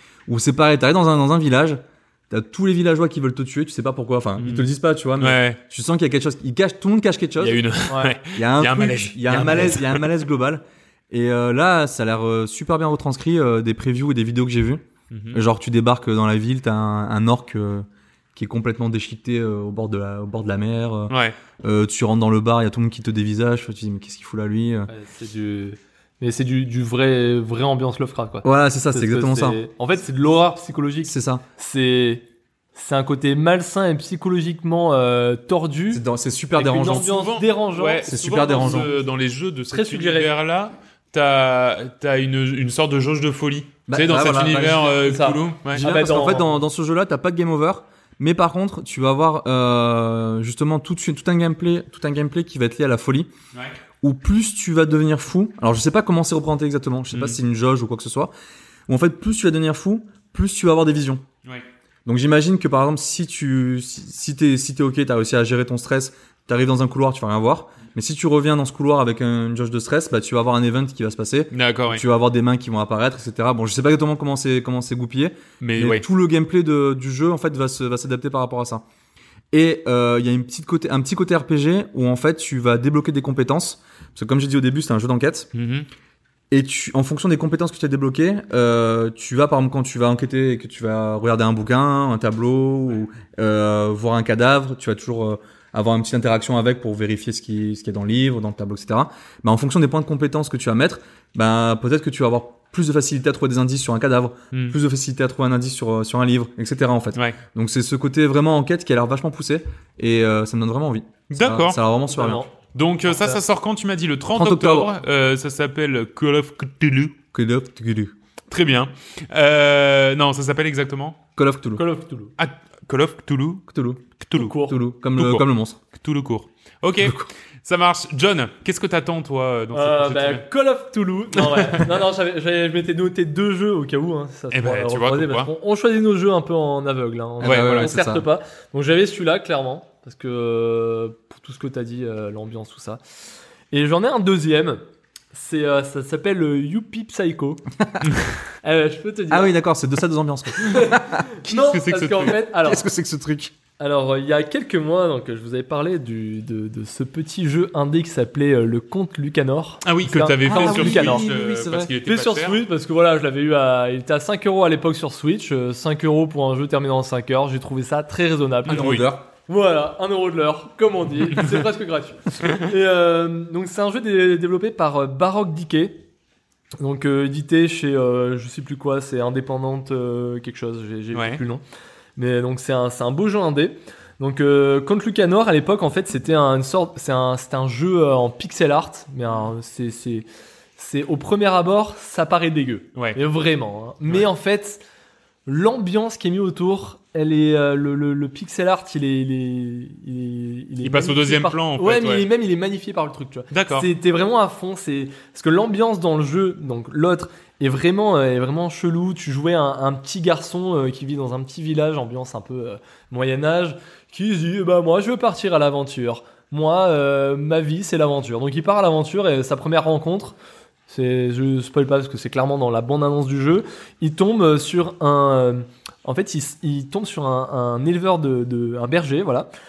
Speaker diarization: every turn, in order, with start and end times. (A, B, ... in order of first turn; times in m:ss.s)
0:00.3-0:07.6 A
0:04.4-0:05.6 B
0:07.4-0:10.0 B
0:07.9-0:08.1 C
0:08.3-0:24.9 A
0:15.1-0:15.4 B
0:21.1-0:21.4 B
0:24.9-0:36.0 C
0:28.4-0:29.6 A
0:31.0-0:31.4 A
0:35.9-0:37.1 A
0:36.6-0:39.0 C
0:36.9-0:45.8 B
0:38.1-0:38.9 A
0:39.7-0:40.3 C
0:43.9-0:45.0 A
0:44.5-0:46.5 C
0:45.7-0:53.3 A
0:54.0-0:58.3 A
0:57.1-0:57.4 B
0:58.9-1:01.2 A
1:02.1-1:18.8 A
1:11.5-1:12.0 B
1:15.6-1:16.1 B
1:19.5-1:25.5 A
1:25.5-1:25.9 B
1:26.5-1:52.4 A
1:51.3-1:51.8 B
1:52.1-1:52.5 C
1:52.7-1:57.2 B
1:53.1-1:53.4 C
1:54.3-1:54.9 A
1:57.3-1:58.1 A
1:58.5-2:01.2 B
2:01.4-2:01.8 A
2:01.8-2:02.3 C
2:02.4-2:03.7 B
2:03.7-2:05.8 A
2:04.2-2:04.6 B
2:04.4-2:04.8 C
2:05.2-2:10.4 B
2:07.0-2:07.3 A
2:09.7-2:23.0 C
2:11.4-2:11.9 B
2:14.5-2:15.5 B
2:17.4-2:18.2 A
2:17.4-2:17.9 B
2:23.7-2:24.8 C
2:25.3-2:27.7 C
2:28.6-2:29.6 C
2:29.3-2:31.2 A
2:30.6-2:32.8 C
2:31.4-2:32.4 B
2:32.6-2:33.5 A
2:33.8-2:41.4 C
2:39.8-2:42.6 B
2:40.5-2:41.9 A
2:42.0-2:56.0 C
2:48.7-2:49.3 A
2:48.7-2:49.0 B
2:56.8-3:01.6 C
3:01.1-3:01.4 B
3:02.2-3:10.3 C
3:10.8-3:14.8 C
3:15.5-3:40.4 C
3:20.8-3:22.3 B
3:23.5-3:23.9 B
3:40.9-3:49.5 C